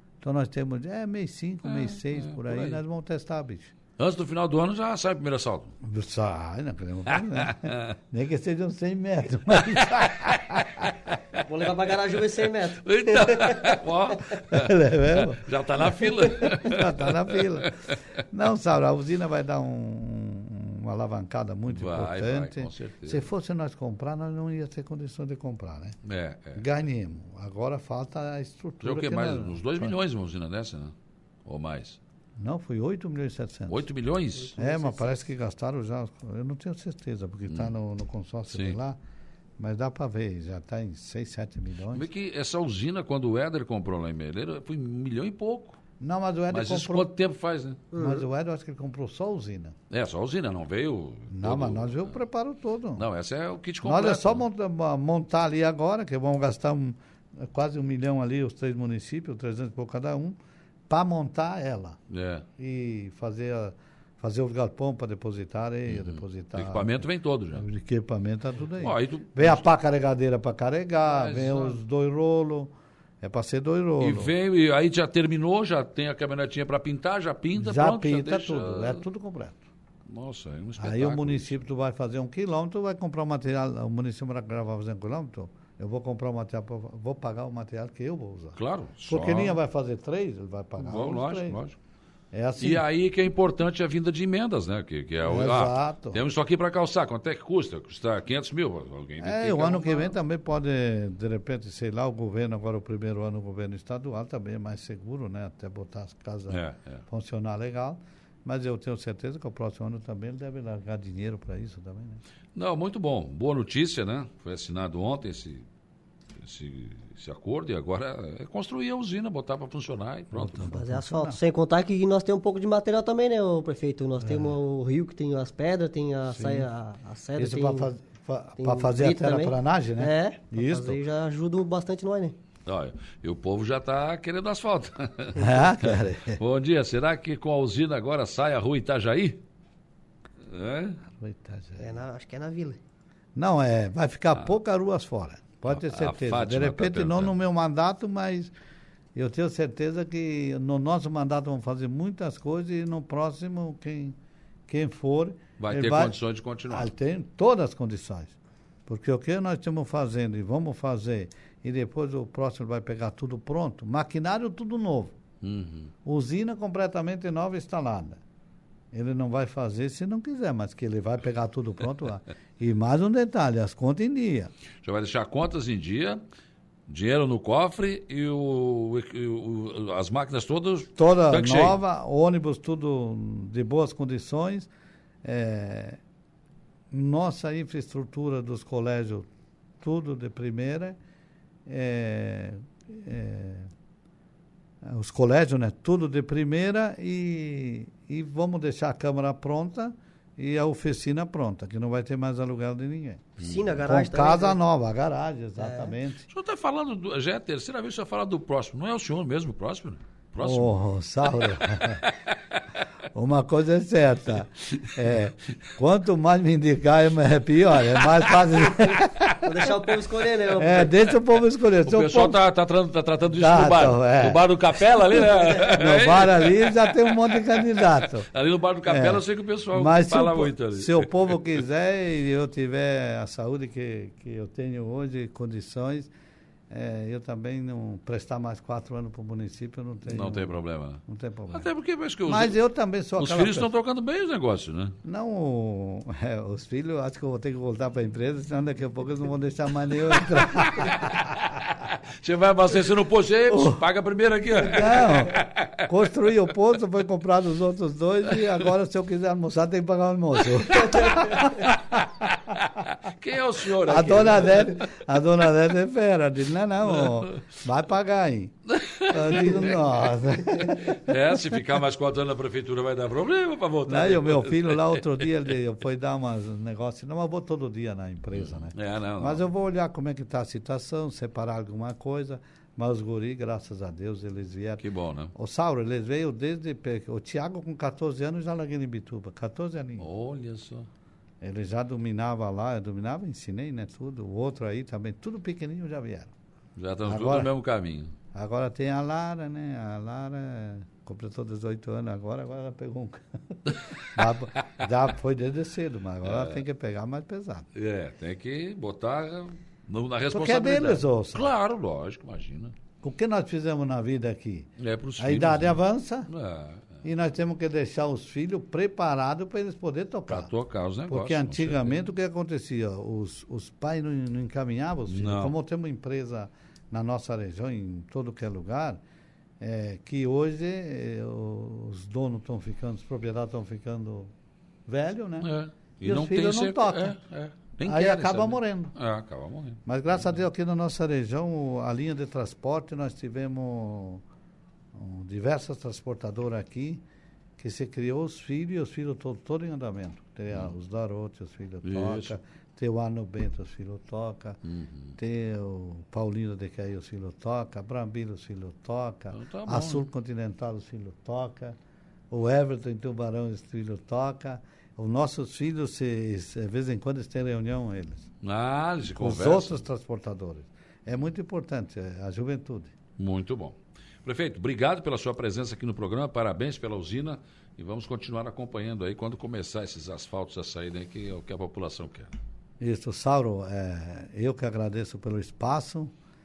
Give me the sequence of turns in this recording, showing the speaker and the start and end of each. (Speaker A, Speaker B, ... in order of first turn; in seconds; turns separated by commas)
Speaker A: 0.2-3.7, Speaker B: 1.6-2.8, Speaker B: 4.0-5.7, Speaker A: 5.8-10.9, Speaker B: 7.3-7.9, Speaker B: 9.7-11.4, Speaker C: 11.4-13.8, Speaker B: 12.8-18.0, Speaker A: 14.5-26.0, Speaker B: 21.7-23.3, Speaker B: 26.0-26.6, Speaker A: 26.6-29.9, Speaker B: 28.8-30.9, Speaker B: 31.4-32.0, Speaker A: 32.4-33.8, Speaker B: 33.7-34.5, Speaker C: 34.5-35.2, Speaker A: 34.5-39.0, Speaker B: 37.5-37.7, Speaker B: 38.5-38.8, Speaker A: 39.6-42.1, Speaker B: 41.9-45.8, Speaker A: 46.0-47.1, Speaker B: 46.5-47.9, Speaker C: 47.9-48.2, Speaker A: 47.9-49.8, Speaker B: 49.9-52.2, Speaker A: 51.3-53.0, Speaker B: 53.0-54.4, Speaker A: 53.8-60.4, Speaker A: 60.9-62.0, Speaker B: 62.1-62.5, Speaker A: 62.6-74.3, Speaker B: 65.9-67.7, Speaker B: 68.8-69.6, Speaker B: 71.0-71.8, Speaker B: 74.0-79.0, Speaker A: 77.5-79.6, Speaker B: 80.1-81.6, Speaker A: 80.8-91.6, Speaker B: 88.5-89.6, Speaker B: 90.8-91.8, Speaker A: 92.3-92.8, Speaker B: 92.6-100.2, Speaker A: 95.2-96.2, Speaker A: 99.2-112.2, Speaker B: 106.5-107.0, Speaker B: 112.5-115.7, Speaker B: 116.4-120.7, Speaker A: 120.3-121.4, Speaker C: 120.6-127.9, Speaker A: 124.2-124.5, Speaker A: 126.3-126.7, Speaker A: 127.4-131.0, Speaker C: 128.6-132.3, Speaker B: 132.7-139.4, Speaker A: 135.3-136.4, Speaker B: 140.4-141.0, Speaker A: 141.1-141.9, Speaker C: 141.8-142.8, Speaker A: 143.3-148.5, Speaker B: 145.7-147.3, Speaker A: 149.1-154.2, Speaker A: 154.7-158.3, Speaker B: 155.6-156.9, Speaker A: 158.9-165.2, Speaker B: 165.4-165.9, Speaker A: 166.0-168.2, Speaker A: 168.9-174.5, Speaker B: 174.8-176.2, Speaker B: 176.9-181.8, Speaker A: 180.9-184.7, Speaker A: 185.2-186.0, Speaker A: 186.9-189.3, Speaker A: 189.8-191.0, Speaker A: 191.7-193.7, Speaker A: 194.8-206.3, Speaker C: 203.4-204.6, Speaker C: 205.6-205.9, Speaker B: 206.3-210.8, Speaker A: 210.4-212.0, Speaker B: 211.3-212.3, Speaker A: 213.1-219.7, Speaker C: 218.8-221.1, Speaker A: 220.5-222.4, Speaker B: 221.8-231.4, Speaker A: 223.3-228.3, Speaker A: 228.8-236.1, Speaker A: 236.7-240.5, Speaker B: 240.0-242.6, Speaker A: 241.1-241.7, Speaker A: 242.2-243.7, Speaker B: 243.2-245.0, Speaker A: 245.0-251.3, Speaker B: 250.3-255.9, Speaker A: 253.5-253.8, Speaker A: 254.6-262.3, Speaker B: 260.7-264.9, Speaker A: 263.8-271.6, Speaker B: 266.9-267.6, Speaker B: 268.7-269.9, Speaker B: 270.6-275.2, Speaker A: 273.9-290.1, Speaker B: 278.3-279.5, Speaker B: 284.8-285.3, Speaker B: 290.0-290.9, Speaker A: 291.4-296.3, Speaker B: 296.8-298.1, Speaker A: 297.1-297.5, Speaker A: 298.3-307.6, Speaker B: 306.2-306.6, Speaker B: 307.7-312.7, Speaker A: 310.3-311.5, Speaker A: 313.0-316.3, Speaker B: 314.8-317.0, Speaker A: 317.0-320.5, Speaker B: 320.3-322.0, Speaker A: 321.1-329.0, Speaker B: 325.1-325.5, Speaker A: 329.6-334.3, Speaker A: 334.9-335.5, Speaker B: 335.4-339.8, Speaker A: 336.0-337.2, Speaker A: 337.8-338.9, Speaker A: 339.9-344.2, Speaker A: 344.9-347.0, Speaker A: 347.6-354.6, Speaker B: 351.8-352.3, Speaker B: 354.6-355.1, Speaker A: 355.2-361.8, Speaker B: 359.3-360.1, Speaker A: 362.3-368.3, Speaker B: 368.4-369.8, Speaker A: 369.1-372.9, Speaker B: 373.2-382.4, Speaker A: 382.8-386.1